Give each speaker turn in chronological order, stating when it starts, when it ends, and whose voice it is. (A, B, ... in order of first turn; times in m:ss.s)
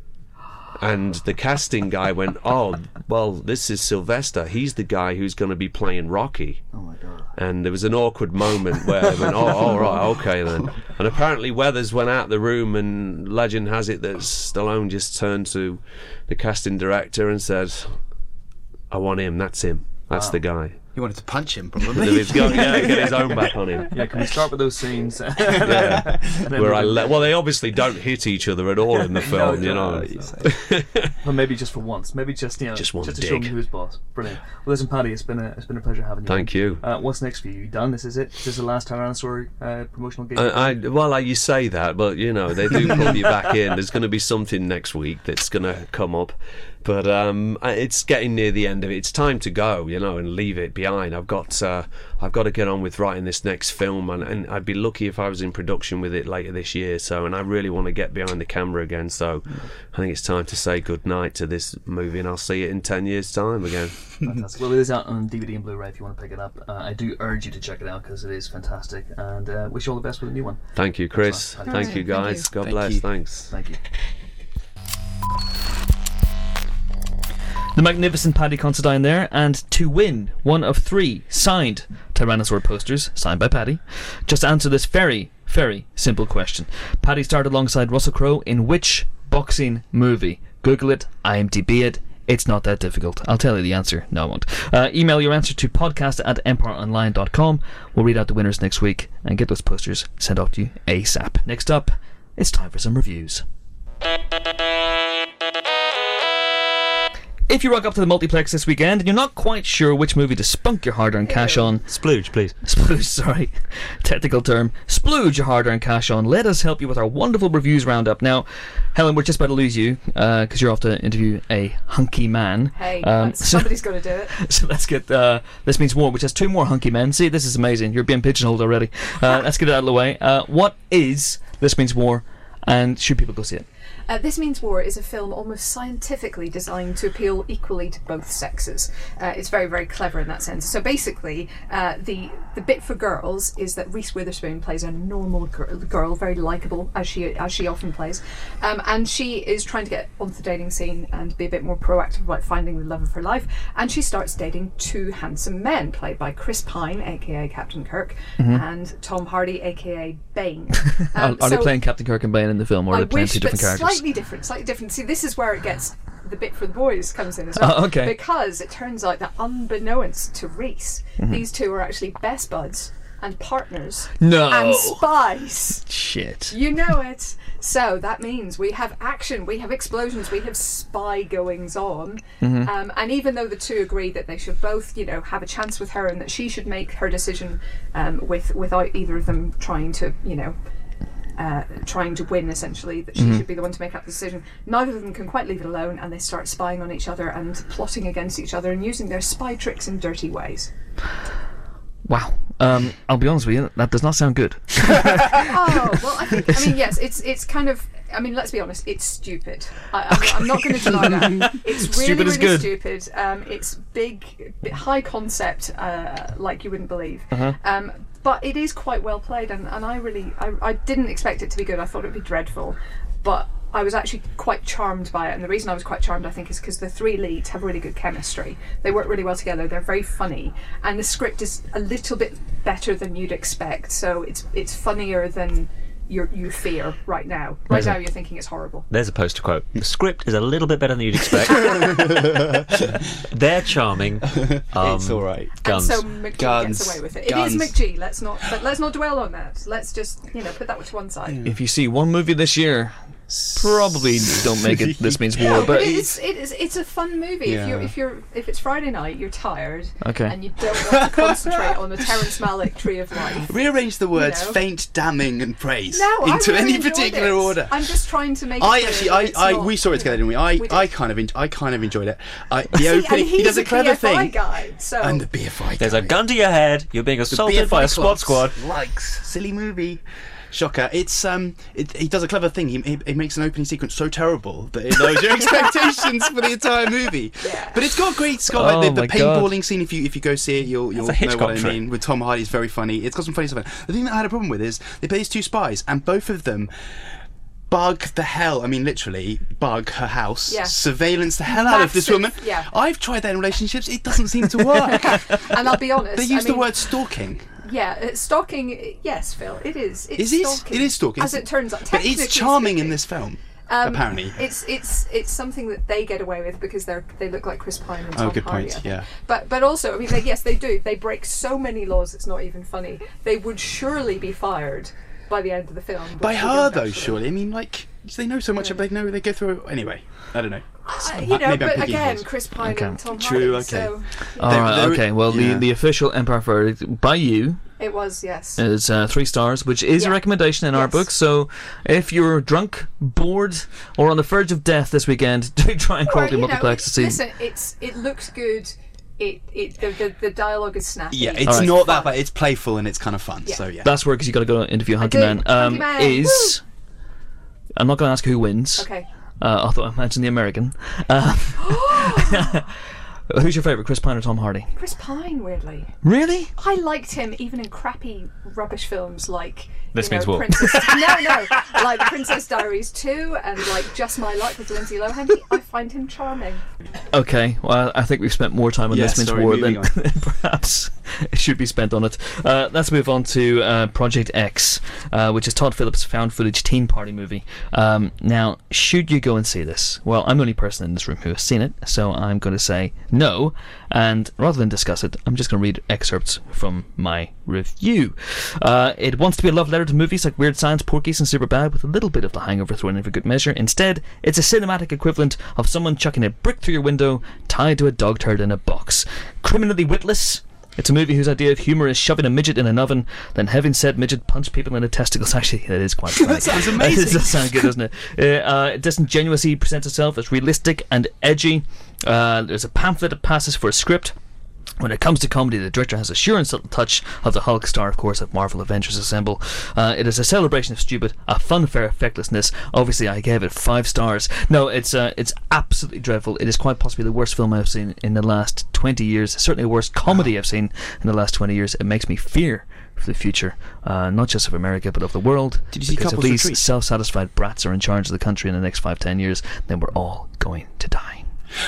0:00.8-0:06.7 A
0:06.7-0:07.3 B
0:07.3-0:18.0 A
0:18.9-0:20.9 A
0:20.1-0:20.4 B
0:20.9-0:23.3 C
0:21.9-0:23.9 A
0:22.6-0:23.1 B
0:23.9-0:27.4 B
0:25.6-0:31.1 A
0:29.1-0:30.7 B
0:29.8-0:30.5 C
0:31.2-0:40.8 B
0:32.7-0:33.6 A
0:36.2-0:36.8 A
0:40.4-1:04.2 A
1:04.2-1:12.1 B
1:10.7-1:13.5 A
1:11.6-1:12.5 D
1:12.6-1:13.1 C
1:13.5-1:13.8 B
1:17.7-1:43.4 B
1:47.5-1:51.9 B
1:51.2-1:51.7 D
1:51.9-1:52.6 E
1:52.6-2:13.7 B
2:02.7-2:04.3 D
2:14.1-2:41.7 D
2:38.4-2:38.6 B
2:41.1-2:44.0 B
2:42.9-2:55.9 D
2:47.6-2:48.2 B
2:54.2-2:55.0 B
2:55.8-2:56.6 B
2:56.5-3:10.6 D
3:02.4-3:02.7 B
3:11.4-3:20.7 D
3:13.2-3:13.4 B
3:22.0-3:25.5 B
3:25.4-3:58.9 D
3:26.4-3:26.7 B
3:30.2-3:32.7 B
3:37.3-3:37.6 B
3:57.7-3:58.0 B
3:58.9-4:06.0 E
4:01.7-4:02.3 C
4:04.4-4:05.5 C
4:05.6-4:11.4 D
4:06.3-4:07.9 C
4:11.3-4:11.6 C
4:11.4-4:16.0 B
4:13.3-4:16.0 C
4:15.4-4:23.5 D
4:17.4-4:17.9 C
4:20.0-4:20.3 B
4:23.3-4:36.2 C
4:24.1-4:24.6 D
4:25.9-4:30.8 D
4:32.7-4:35.2 D
4:35.8-4:38.6 E
4:37.3-5:07.5 C
4:47.4-4:48.0 D
4:48.5-4:49.5 B
4:50.9-4:51.8 E
5:00.5-5:00.8 D
5:01.4-5:02.7 D
5:04.8-5:06.9 D
5:07.6-5:13.0 D
5:10.2-5:14.4 C
5:13.7-5:27.2 D
5:18.1-5:19.1 C
5:26.2-5:32.5 C
5:30.9-5:34.7 D
5:32.6-5:33.0 B
5:33.1-5:35.7 C
5:34.4-5:37.8 B
5:37.8-5:38.6 D
5:38.6-5:47.2 B
5:40.0-5:41.0 D
5:46.0-5:52.2 D
5:51.1-5:53.9 C
5:51.4-5:51.8 B
5:53.8-5:56.6 B
5:55.0-5:56.6 D
5:57.8-6:04.7 B
5:58.8-5:59.1 D
6:01.6-6:02.4 D
6:04.8-6:06.0 D
6:06.0-6:06.5 B
6:06.5-6:16.6 D
6:09.9-6:11.6 E
6:17.1-7:04.2 B
6:18.9-6:20.0 C
6:56.2-6:57.7 C
7:04.8-7:31.3 B
7:25.7-7:26.6 C